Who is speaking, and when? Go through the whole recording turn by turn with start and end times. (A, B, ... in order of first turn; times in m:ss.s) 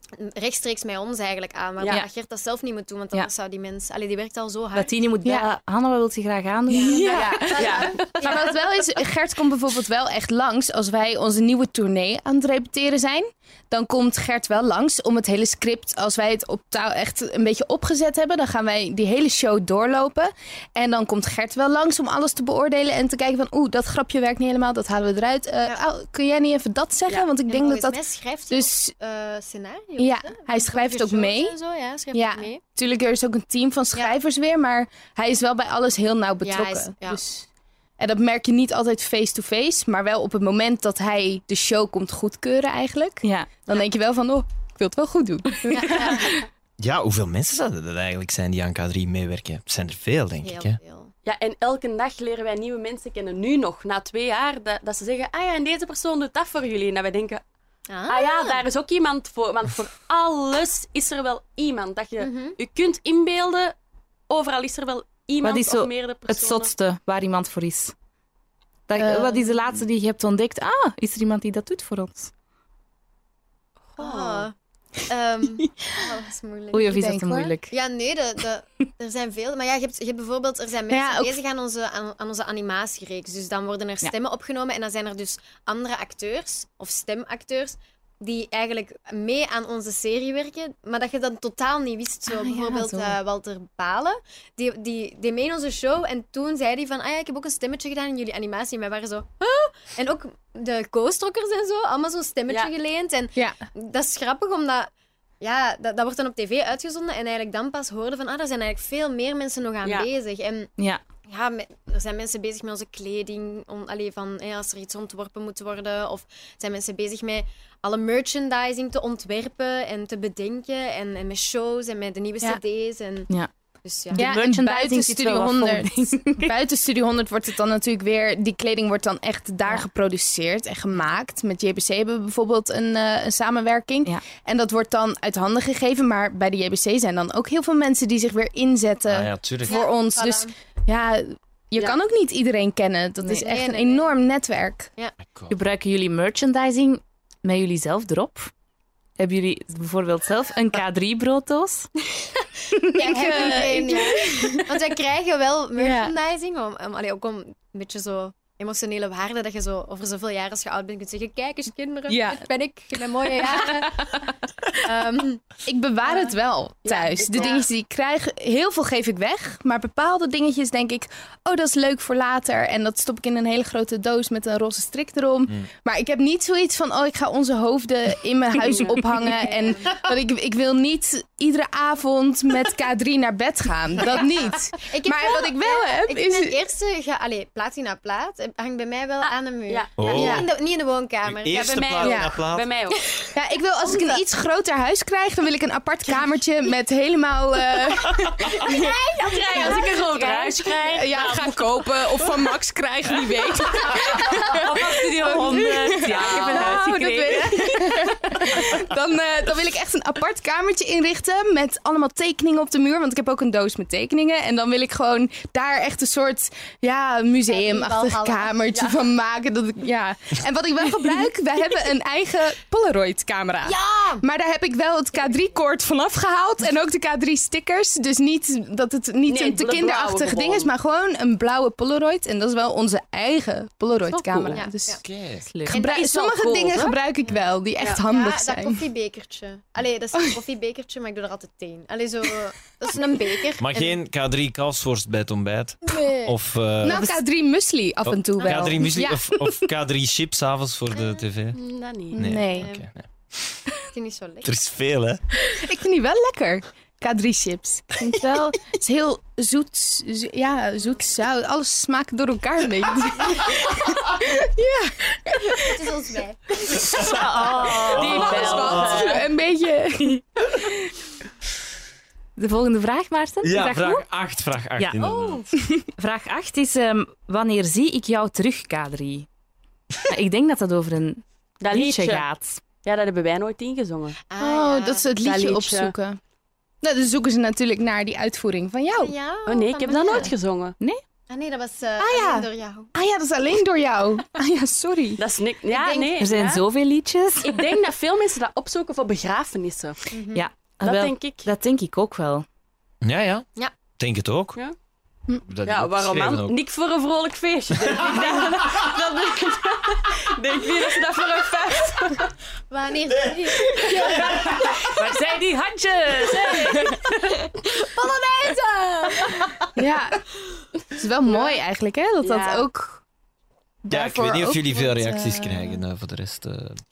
0:00.2-0:04.9 A
0:01.8-0:02.0 B
0:04.7-0:07.6 C
0:05.2-0:05.5 D
0:06.7-0:08.7 A
0:06.7-0:28.9 D
0:07.4-0:08.1 B
0:27.5-0:32.6 A
0:30.0-0:31.6 D
0:32.1-0:37.5 D
0:36.4-0:37.2 A
0:38.0-0:46.4 D
0:43.2-0:43.5 C
0:45.7-0:46.4 A
0:46.8-0:50.8 E
0:50.4-0:51.1 A
0:51.2-0:57.4 B
0:57.9-0:58.6 A
0:58.1-1:03.7 B
1:02.2-1:02.6 A
1:04.3-1:06.7 B
1:05.4-1:07.9 C
1:08.9-1:12.3 C
1:09.0-1:09.5 D
1:13.9-1:14.5 B
1:14.0-1:14.5 A
1:15.1-1:17.0 A
1:16.7-1:17.7 C
1:16.8-1:17.5 D
1:17.7-1:44.9 A
1:20.9-1:21.4 D
1:32.3-1:33.2 C
1:45.4-1:50.7 A
1:51.3-2:03.3 A
2:03.8-2:04.3 A
2:04.1-2:06.5 C
2:04.1-2:24.9 D
2:19.1-2:19.8 E
2:19.6-2:20.5 A
2:23.3-2:24.1 A
2:25.3-2:25.5 E
2:25.5-2:28.5 C
2:29.2-2:31.9 C
2:32.7-2:33.4 C
2:32.9-2:45.4 A
2:32.9-2:34.8 D
2:35.8-2:36.1 D
2:42.1-2:42.4 D
2:43.4-2:44.1 D
2:45.6-3:06.6 D
2:46.0-2:46.3 A
2:46.9-2:47.6 B
2:46.9-2:47.6 A
2:59.1-3:00.0 A
3:04.0-3:12.2 A
3:09.2-3:10.4 B
3:10.0-3:10.5 E
3:10.1-3:10.4 D
3:11.2-3:12.7 E
3:11.5-3:13.0 B
3:12.0-3:12.4 D
3:12.9-3:14.2 A
3:13.3-3:20.0 D
3:18.5-3:20.7 A
3:18.7-3:21.6 B
3:20.8-3:55.0 D
3:24.2-3:26.8 B
3:24.5-3:28.3 C
3:37.5-3:39.0 A
3:43.6-3:44.2 A
3:45.1-3:45.6 A
3:49.3-3:50.7 B
3:54.1-3:54.6 C
3:54.5-3:55.0 A
3:55.0-3:55.4 E
3:55.4-3:56.8 C
3:55.7-3:58.8 D
3:55.7-3:57.4 A
3:58.0-4:03.9 A
4:03.6-4:07.0 E
4:05.8-4:06.4 A
4:06.8-4:09.5 D
4:08.1-4:11.6 E
4:08.4-4:08.8 A
4:10.9-4:11.2 A
4:11.5-4:12.2 B
4:12.1-4:12.7 D
4:12.2-4:13.6 E
4:12.5-4:12.8 A
4:13.9-4:14.5 A
4:14.4-4:15.2 E
4:15.5-4:26.0 D
4:25.6-4:26.5 A
4:26.6-4:27.1 D
4:26.7-4:29.1 E
4:27.0-4:29.1 C
4:27.9-4:30.9 D
4:27.9-4:29.2 B
4:32.4-4:34.0 C
4:33.4-4:35.4 E
4:35.0-4:35.5 A
4:36.0-4:39.3 C
4:40.1-4:42.6 C
4:41.6-4:42.2 B
4:42.8-4:44.2 B
4:44.3-4:45.1 A
4:44.4-4:46.2 D
4:45.2-4:45.9 B
4:46.8-4:49.1 D
4:49.0-4:50.3 A
4:49.5-4:50.8 B
4:49.9-4:50.3 D
4:51.3-4:52.9 A
4:52.0-4:55.2 D
4:55.2-4:56.6 B
4:55.7-4:56.2 A
4:56.2-4:57.5 C
4:57.4-5:00.0 B
5:00.1-5:00.4 A
5:00.3-5:02.4 C
5:00.8-5:01.5 B
5:03.0-5:03.4 E
5:04.0-5:04.6 E
5:05.5-5:06.5 E
5:05.6-5:12.3 B
5:07.8-5:09.0 E
5:12.7-5:14.9 A
5:13.2-5:14.9 E
5:14.8-5:17.4 C
5:17.6-5:19.6 A
5:19.8-5:20.2 D
5:20.9-5:23.0 D
5:22.2-5:22.7 B
5:23.8-5:25.8 D
5:23.9-5:26.8 E